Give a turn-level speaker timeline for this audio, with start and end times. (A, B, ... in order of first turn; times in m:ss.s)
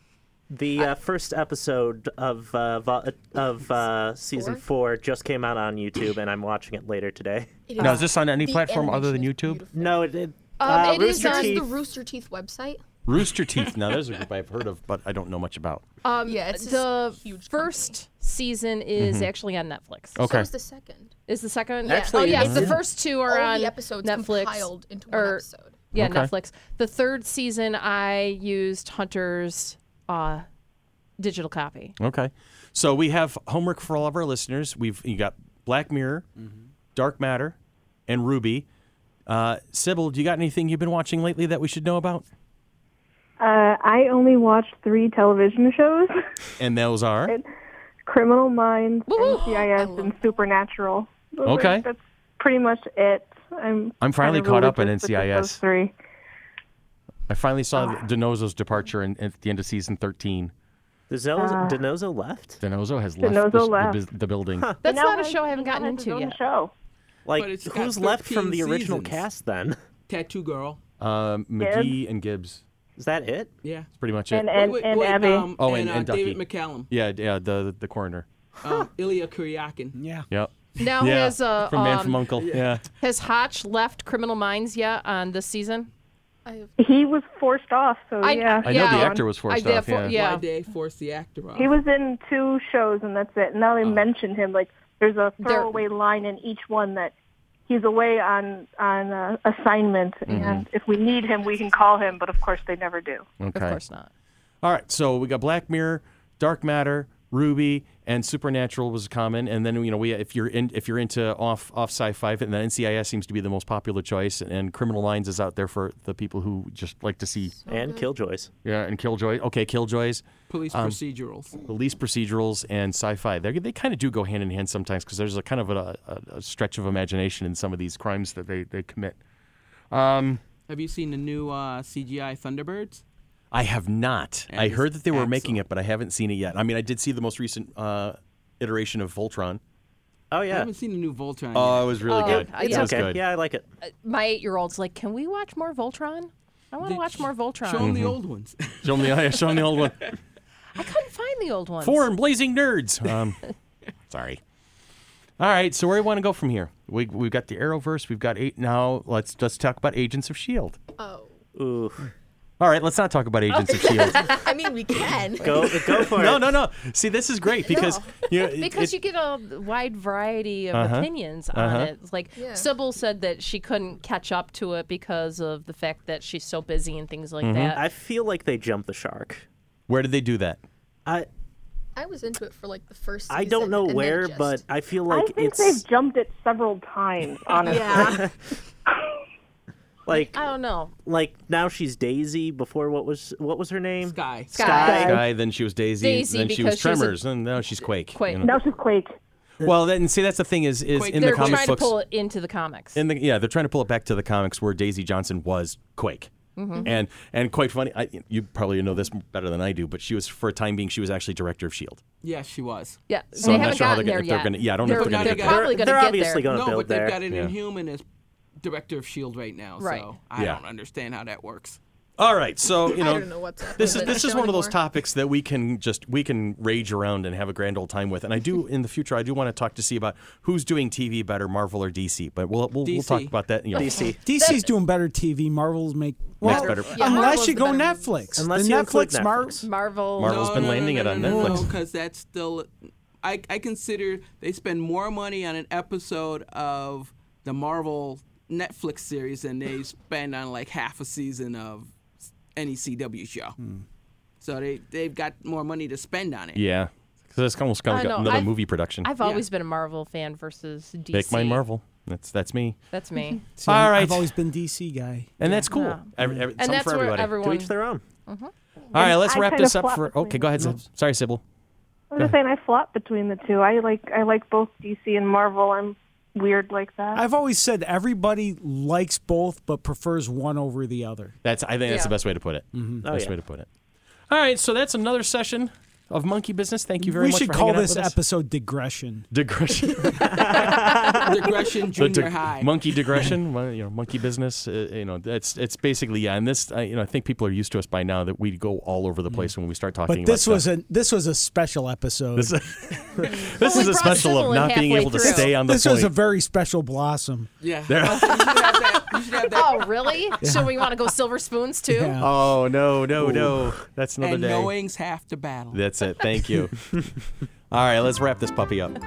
0:00.5-0:08.0 A
0:04.3-0:04.6 B
0:07.7-0:10.1 B
0:07.8-0:09.6 C
0:09.7-0:11.7 A
0:10.6-0:11.7 D
0:10.6-0:12.8 B
0:13.0-0:15.8 C
0:16.0-0:20.2 D
0:16.2-0:18.0 B
0:19.0-0:19.3 C
0:20.2-0:20.5 C
0:20.2-0:21.1 B
0:21.3-0:30.4 D
0:21.8-0:25.9 B
0:21.9-0:22.8 A
0:25.9-0:26.3 C
0:31.2-0:31.9 D
0:32.0-0:36.2 C
0:36.9-0:37.6 C
0:38.1-0:38.6 C
0:39.3-0:42.2 C
0:43.4-0:46.1 E
0:46.6-0:47.4 C
0:48.0-0:55.9 E
0:49.1-0:49.5 D
0:49.1-0:50.4 B
0:51.4-0:51.9 C
0:54.0-0:55.6 C
0:57.3-1:00.5 C
1:01.1-1:02.6 A
1:01.4-1:01.8 E
1:02.6-1:04.7 C
1:03.2-1:04.0 E
1:04.6-1:04.8 A
1:04.8-1:06.4 D
1:04.8-1:06.7 E
1:07.2-1:09.8 A
1:07.4-1:09.2 F
1:10.1-1:10.8 F
1:11.0-1:12.6 C
1:11.6-1:11.9 E
1:13.0-1:13.5 A
1:13.6-1:13.9 F
1:14.0-1:14.6 C
1:14.3-1:15.5 E
1:14.5-1:16.9 F
1:15.6-1:18.2 C
1:18.6-1:19.9 F
1:19.9-1:20.2 G
1:20.3-1:22.8 C
1:20.8-1:22.2 D
1:22.4-1:22.7 F
1:23.0-1:25.9 D
1:26.4-1:26.7 B
1:26.8-1:29.2 E
1:28.2-1:30.4 D
1:28.6-1:30.1 C
1:30.1-1:31.8 F
1:31.6-1:37.1 E
1:35.4-1:35.8 D
1:37.7-1:43.2 E
1:40.2-1:40.7 C
1:43.4-1:43.8 C
1:43.5-1:44.1 D
1:44.6-1:57.6 C
1:57.6-1:58.1 B
1:57.7-1:58.5 A
1:58.6-2:01.0 C
2:00.5-2:01.5 F
2:01.6-2:09.2 C
2:09.9-2:10.4 C
2:10.7-2:13.0 F
2:13.5-2:19.6 C
2:14.5-2:15.6 F
2:20.3-2:20.7 A
2:20.5-2:22.0 F
2:21.5-2:23.2 C
2:22.0-2:23.0 D
2:22.2-2:23.6 A
2:23.8-2:28.0 D
2:26.8-2:30.1 F
2:27.8-2:28.2 C
2:28.8-2:30.1 C
2:30.7-2:32.1 D
2:31.8-2:33.4 C
2:34.1-2:34.4 C
2:35.4-2:40.8 C
2:41.0-2:41.4 B
2:41.5-2:42.1 A
2:42.6-2:44.4 C
2:43.5-2:44.5 D
2:43.7-2:46.1 B
2:45.4-2:46.5 A
2:46.1-2:48.9 C
2:47.7-2:57.8 D
2:47.7-2:48.2 B
2:50.7-2:51.9 C
2:52.4-2:52.7 B
2:57.4-2:57.8 C
2:57.7-2:59.4 A
2:59.9-3:00.6 C
3:02.0-3:04.6 B
3:03.3-3:05.8 A
3:05.1-3:08.2 E
3:07.6-3:08.3 B
3:07.8-3:08.3 A
3:10.0-3:10.4 A
3:10.1-3:10.9 D
3:11.0-3:15.2 A
3:14.0-3:14.9 F
3:14.5-3:15.2 D
3:14.6-3:15.2 E
3:15.0-3:18.5 C
3:16.0-3:17.2 D
3:18.1-3:18.5 D
3:18.4-3:19.2 E
3:19.6-3:22.0 C
3:20.9-3:21.7 F
3:21.2-3:23.0 D
3:22.9-3:26.3 C
3:26.6-3:26.9 D
3:26.8-3:32.0 C
3:32.2-3:33.0 F
3:33.1-3:36.5 D
3:33.4-3:35.7 C
3:34.8-3:38.0 F
3:35.4-3:37.2 A
3:38.6-3:41.8 F
3:39.8-3:40.1 D
3:40.4-3:40.6 C
3:42.2-3:54.1 C
3:42.8-3:44.8 B
3:43.8-3:44.2 D
3:52.8-3:53.3 F
3:53.8-3:54.2 A
3:54.0-3:54.7 D
3:54.2-3:59.6 G
3:56.4-3:57.0 C
3:56.4-3:58.0 D
3:57.0-3:57.4 B
3:58.4-3:59.6 A
3:59.6-4:00.8 D
4:00.2-4:01.7 C
4:00.2-4:02.7 F
4:03.2-4:11.9 F
4:12.6-4:13.6 F
4:13.6-4:13.8 G
4:14.4-4:16.6 F
4:16.6-4:19.1 C
4:17.9-4:21.6 D
4:21.1-4:22.8 C
4:22.9-4:23.4 D
4:23.6-4:25.4 G
4:23.6-4:24.3 C
4:25.4-4:27.4 C
4:25.7-4:27.7 D
4:26.2-4:26.5 G
4:27.4-4:28.0 A
4:28.3-4:28.5 D
4:28.9-4:31.4 C
4:28.9-4:30.7 E
4:32.1-4:37.2 E
4:37.1-4:41.3 G
4:41.4-4:43.7 C
4:41.9-4:42.1 D
4:42.7-4:43.0 G
4:43.0-4:43.3 A
4:44.3-4:48.2 C
4:47.0-4:49.3 G
4:49.3-4:50.6 C
4:50.2-4:51.4 A
4:51.0-4:52.7 F
4:52.0-5:00.6 C
5:00.1-5:02.6 G
5:02.4-5:06.1 C
5:03.2-5:03.5 G
5:03.3-5:05.5 D
5:05.2-5:07.5 G
5:07.6-5:10.1 F
5:07.9-5:08.9 C
5:09.5-5:12.2 D
5:10.4-5:10.7 G
5:11.9-5:12.3 G
5:12.2-5:14.7 C
5:14.2-5:15.8 F
5:15.7-5:16.9 C
5:17.7-5:18.9 C